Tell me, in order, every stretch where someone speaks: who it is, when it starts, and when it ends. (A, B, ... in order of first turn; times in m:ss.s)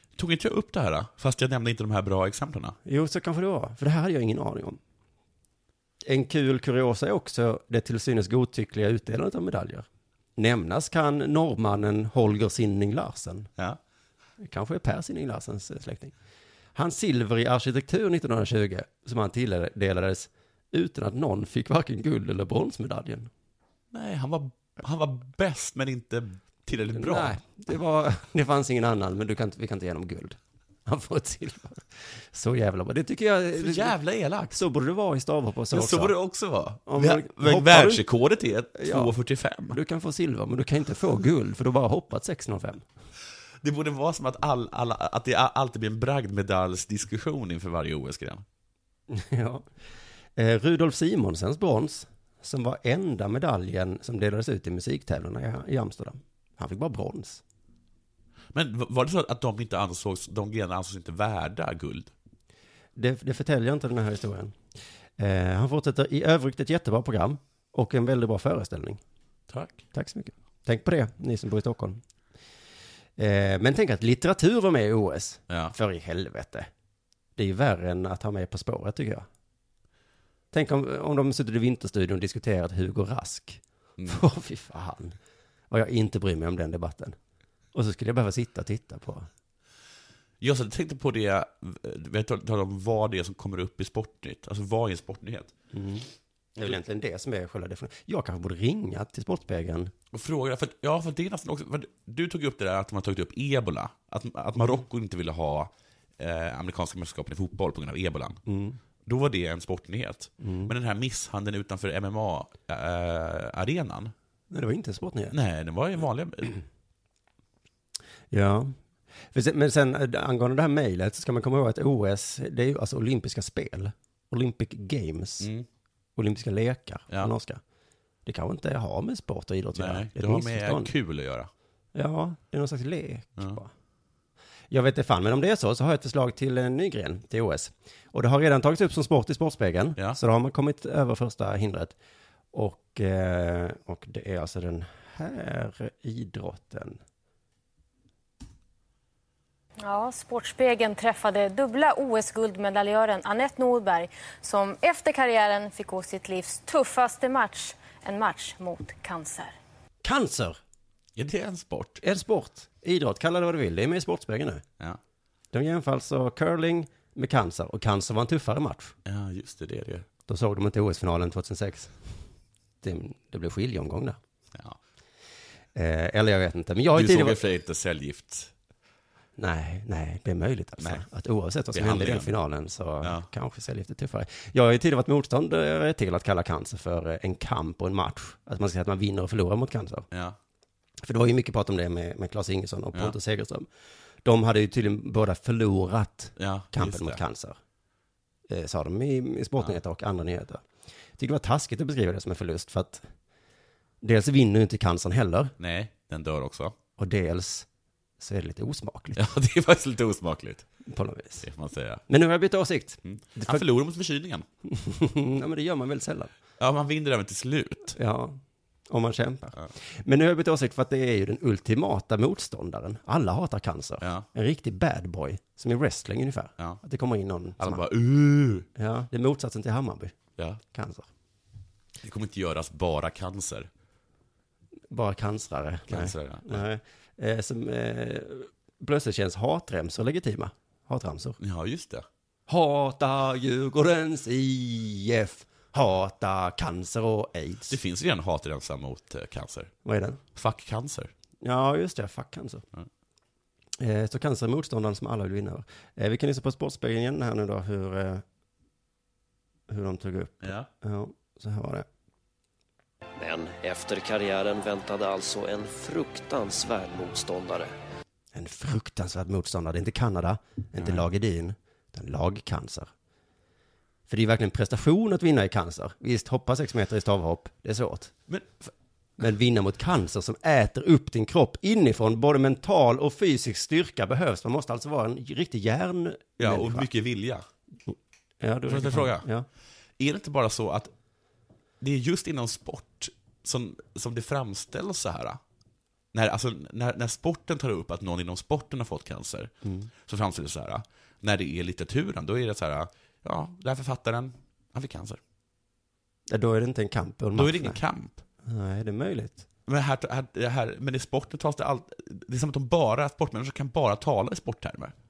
0:00.2-0:02.8 A
0:02.8-0:04.8 B
0:06.0-0:13.5 B
0:14.4-0:16.1 B
0:16.8-0:23.3 B
0:23.9-0:27.4 A
0:26.9-0:34.0 B
0:33.6-0:34.6 A
0:34.5-0:36.2 B
0:35.7-0:39.8 A
0:36.9-0:38.0 B
0:38.8-0:39.2 B
0:39.7-0:42.8 B
0:43.6-0:48.4 A
0:49.1-0:49.7 B
0:50.4-0:57.4 B
0:58.5-1:02.1 A
1:03.0-1:04.6 B
1:05.2-1:09.0 B
1:09.5-1:09.8 A
1:09.9-1:12.0 B
1:13.2-1:16.7 B
1:17.4-1:19.3 B
1:20.5-1:25.2 B
1:25.7-1:27.2 B
1:27.7-1:29.3 B
1:30.4-1:35.5 A
1:35.7-1:39.9 B
1:40.1-1:48.4 A
1:48.5-1:48.8 B
1:49.0-1:54.1 A
1:50.4-1:50.7 B
1:54.5-1:55.4 B
1:55.3-1:56.6 A
1:58.3-1:58.8 B
1:59.3-2:05.5 B
2:05.4-2:05.7 A
2:06.2-2:07.6 B
2:08.2-2:10.9 B
2:09.8-2:11.5 A
2:11.9-2:13.7 B
2:14.7-2:22.0 B
2:22.5-2:27.0 B
2:29.8-2:39.6 C
2:40.0-2:40.6 B
2:41.2-2:42.0 A
2:42.0-2:44.6 B
2:45.5-2:48.9 B
2:49.1-2:50.1 A
2:50.3-2:52.0 B
2:52.8-2:54.2 B
2:54.5-2:54.8 A
2:55.7-2:57.5 B
2:56.9-2:58.5 A
2:59.4-3:10.1 B
3:01.7-3:02.4 A
3:03.0-3:03.3 A
3:10.1-3:10.4 A
3:11.0-3:13.7 B
3:14.2-3:17.6 B
3:16.4-3:17.2 A
3:18.5-3:20.6 B
3:21.2-3:23.1 B
3:24.0-3:25.5 B
3:25.6-3:26.8 A
3:27.0-3:27.7 B
3:28.2-3:29.2 B
3:29.2-3:30.7 A
3:30.9-3:31.5 B
3:31.4-3:32.0 A
3:32.1-3:33.6 B
3:33.0-3:34.4 A
3:34.7-3:36.3 B
3:36.6-3:38.0 A
3:38.0-3:47.8 B
3:44.0-3:44.3 A
3:47.6-3:48.7 A
3:48.8-3:50.2 B
3:50.7-3:51.1 B
3:52.0-3:53.7 A
3:54.9-4:01.4 B
3:55.9-3:56.6 A
4:01.4-4:02.0 A
4:02.5-4:07.8 B
4:07.7-4:09.7 A
4:09.8-4:10.2 B
4:10.4-4:11.1 A
4:11.4-4:12.6 B
4:13.8-4:18.2 B
4:19.7-4:21.9 B
4:20.4-4:20.7 A
4:23.2-4:27.8 D
4:28.3-4:32.9 B
4:30.8-4:31.1 A
4:34.1-4:38.1 B
4:38.3-4:38.7 A
4:39.2-4:46.9 B
4:46.4-4:47.4 A
4:47.9-4:49.5 B
4:48.7-4:49.3 A
4:50.0-4:50.9 A
4:51.8-4:55.4 A
4:56.1-4:59.5 A
4:59.6-4:59.9 B
5:00.0-5:05.2 A
5:06.3-5:07.8 B
5:07.4-5:08.2 A
5:08.4-5:09.4 B
5:09.7-5:14.9 A